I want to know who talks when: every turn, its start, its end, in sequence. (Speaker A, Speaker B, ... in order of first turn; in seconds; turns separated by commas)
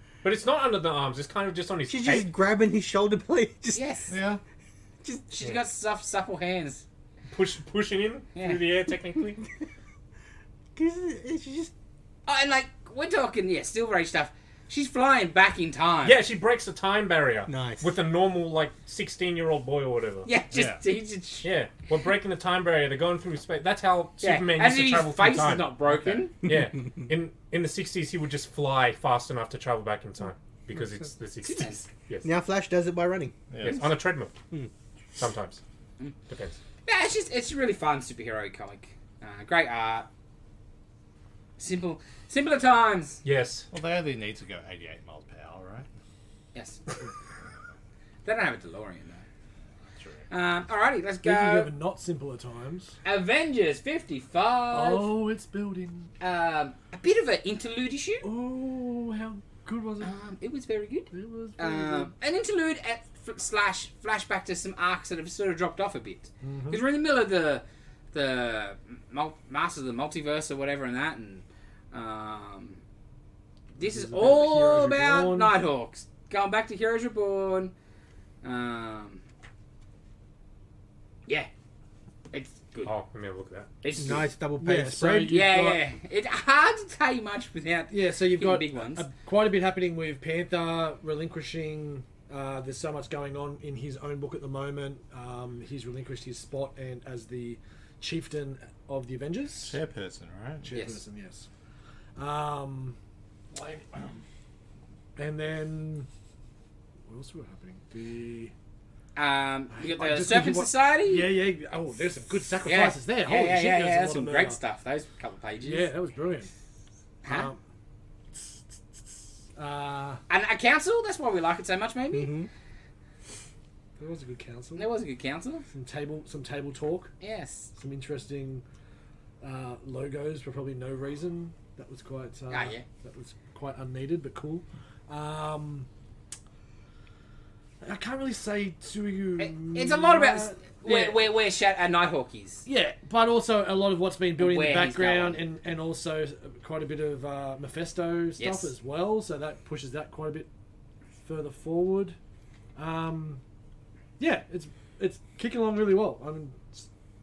Speaker A: 0.2-2.3, Speaker B: 1.9-3.8, Speaker C: 3.7-4.1, Speaker D: 4.1-4.4, Speaker C: 5.3-6.8, Speaker A: 7.3-9.3, Speaker C: 8.3-8.6, Speaker B: 9.2-9.5, Speaker B: 10.8-11.7, Speaker C: 12.2-16.2, Speaker A: 16.0-20.3, Speaker B: 17.5-17.9, Speaker C: 20.2-21.5, Speaker D: 20.5-20.8, Speaker A: 21.4-32.3, Speaker C: 24.2-26.3, Speaker B: 26.4-27.1, Speaker C: 31.4-31.9, Speaker B: 32.2-33.4, Speaker D: 33.5-33.9, Speaker A: 33.6-34.3, Speaker A: 35.2-35.6, Speaker A: 36.3-36.6, Speaker C: 36.9-40.1, Speaker C: 41.6-43.2, Speaker A: 43.2-43.7, Speaker D: 43.7-45.9, Speaker C: 46.5-46.8, Speaker C: 48.2-49.2, Speaker D: 49.9-50.2, Speaker C: 50.3-51.7, Speaker E: 51.2-52.9, Speaker C: 53.0-55.1, Speaker E: 54.7-56.1, Speaker C: 56.2-58.2, Speaker E: 58.2-60.1, Speaker C: 60.0-72.8, Speaker E: 61.1-62.1, Speaker E: 66.4-66.8, Speaker C: 73.8-77.7, Speaker E: 73.8-75.5, Speaker C: 78.4-79.2, Speaker C: 82.3-82.9, Speaker A: 82.8-83.7, Speaker C: 83.8-84.3, Speaker B: 84.0-85.4, Speaker E: 84.6-85.8, Speaker C: 85.3-89.1, Speaker E: 87.9-99.8, Speaker D: 99.6-100.7, Speaker E: 100.6-101.5, Speaker C: 100.7-101.0, Speaker E: 102.2-103.0, Speaker E: 103.5-104.2, Speaker E: 105.2-106.1, Speaker E: 107.1-108.5, Speaker C: 109.2-111.3, Speaker E: 109.7-114.6, Speaker C: 112.6-115.9, Speaker E: 115.6-116.5, Speaker C: 117.2-117.5, Speaker E: 117.2-117.6, Speaker E: 118.3-120.2, Speaker C: 120.3-122.3, Speaker B: 122.1-122.5, Speaker E: 124.0-124.9, Speaker C: 124.8-125.7, Speaker E: 125.7-127.1, Speaker C: 127.2-127.7, Speaker E: 127.7-128.6, Speaker E: 129.4-135.9, Speaker C: 132.5-132.8, Speaker E: 137.8-141.2, Speaker C: 139.4-142.7, Speaker E: 142.7-150.5, Speaker C: 144.4-145.4, Speaker C: 148.4-148.7, Speaker E: 151.2-152.2, Speaker E: 152.8-153.4, Speaker E: 154.2-156.9